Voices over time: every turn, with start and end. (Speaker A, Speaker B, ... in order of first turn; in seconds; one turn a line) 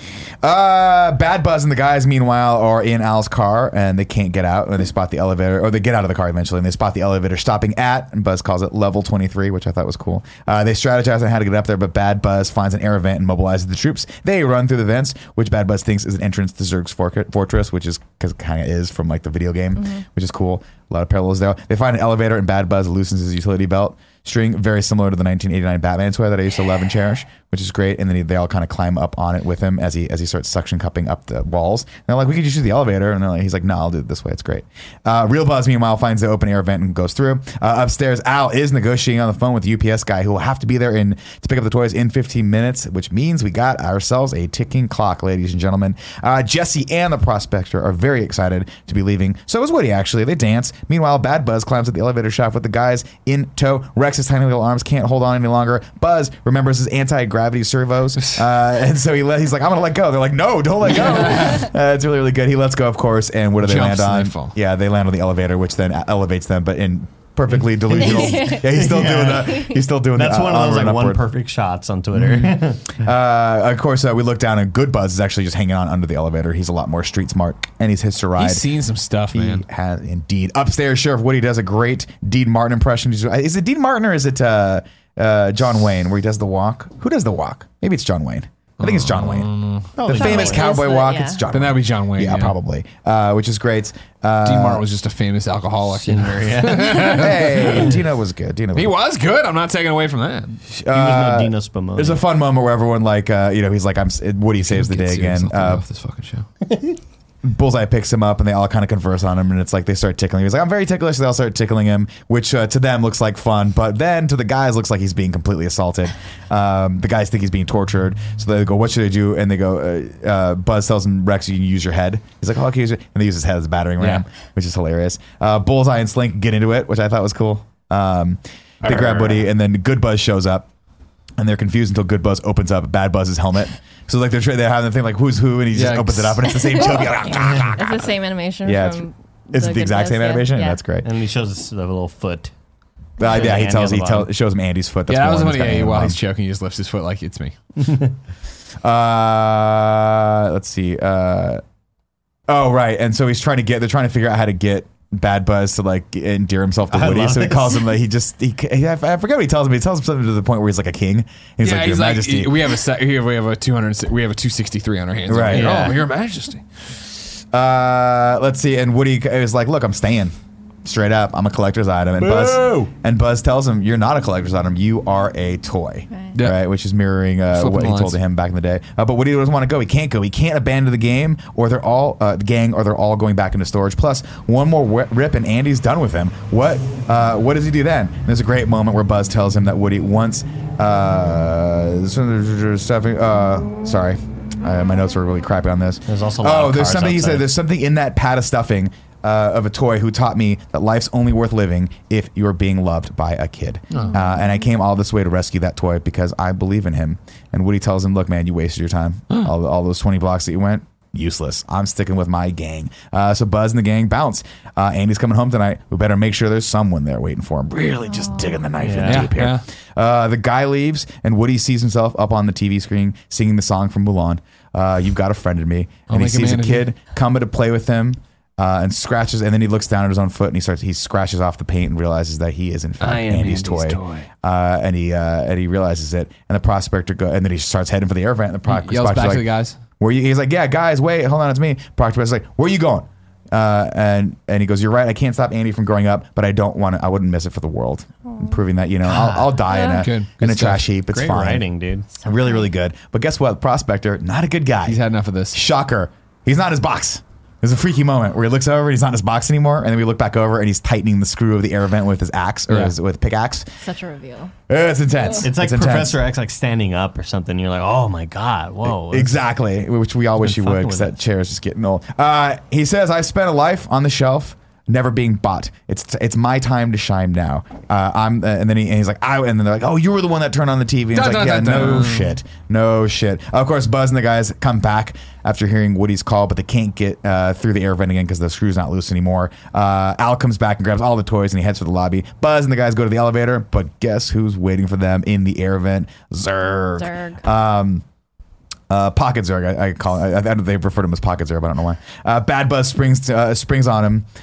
Speaker A: 0.4-71.2
Speaker B: 19.8-20.0
Speaker C: 61.2-61.6
Speaker C: 63.6-64.5
Speaker D: 67.9-73.0
Speaker B: 67.9-68.7
Speaker A: 72.1-78.6
Speaker C: 78.4-79.6
Speaker A: 79.3-94.8
Speaker C: 88.8-89.9
Speaker D: 90.0-90.7
Speaker B: 90.1-91.4
Speaker C: 91.5-92.5
Speaker C: 94.4-98.0
Speaker D: 95.9-97.9
Speaker A: 97.0-99.0
Speaker C: 98.7-100.6
Speaker A: 100.7-105.8
Speaker D: 100.9-102.2
Speaker C: 104.7-106.5
Speaker D: 106.7-107.0
Speaker A: 107.4-130.7
Speaker C: 124.0-124.2
Speaker C: 128.8-129.4
Speaker A: 131.4-138.1
Speaker C: 135.7-136.9
Speaker B: 136.8-140.8
Speaker D: 137.4-137.8
Speaker A: 138.6-141.1
Speaker D: 141.0-142.5
Speaker A: 143.2-146.2
Speaker D: 143.2-144.3
Speaker C: 145.1-147.5
Speaker D: 147.8-148.1
Speaker A: 148.8-151.6
Speaker A: 152.5-162.7
Speaker D: 156.9-157.8
Speaker C: 161.6-166.6
Speaker A: 165.3-165.9
Speaker D: 165.5-166.0
Speaker A: 167.5-170.3
Speaker A: 170.8-239.5
Speaker C: 172.2-172.9
Speaker C: 176.3-176.6
Speaker C: 177.5-178.2
Speaker D: 196.1-197.5
Speaker B: 218.1-218.6
Speaker D: 218.8-219.3
Speaker C: 219.0-219.6
Speaker C: 226.1-226.8
Speaker C: 233.0-234.3
Speaker C: 238.7-239.8
Speaker A: 240.0-251.7
Speaker B: 248.3-248.5
Speaker D: 249.0-249.6
Speaker B: 249.6-250.0
Speaker C: 249.7-250.9
Speaker D: 251.1-252.1
Speaker A: 252.2-255.0
Speaker B: 252.2-252.6
Speaker C: 254.8-255.6
Speaker A: 255.5-263.6
Speaker C: 262.7-262.9
Speaker B: 263.8-264.5
Speaker A: 264.7-266.2
Speaker D: 265.4-269.4
Speaker A: 268.8-298.0
Speaker D: 270.4-271.1
Speaker C: 281.1-282.4
Speaker B: 297.0-297.4
Speaker A: 298.9-304.2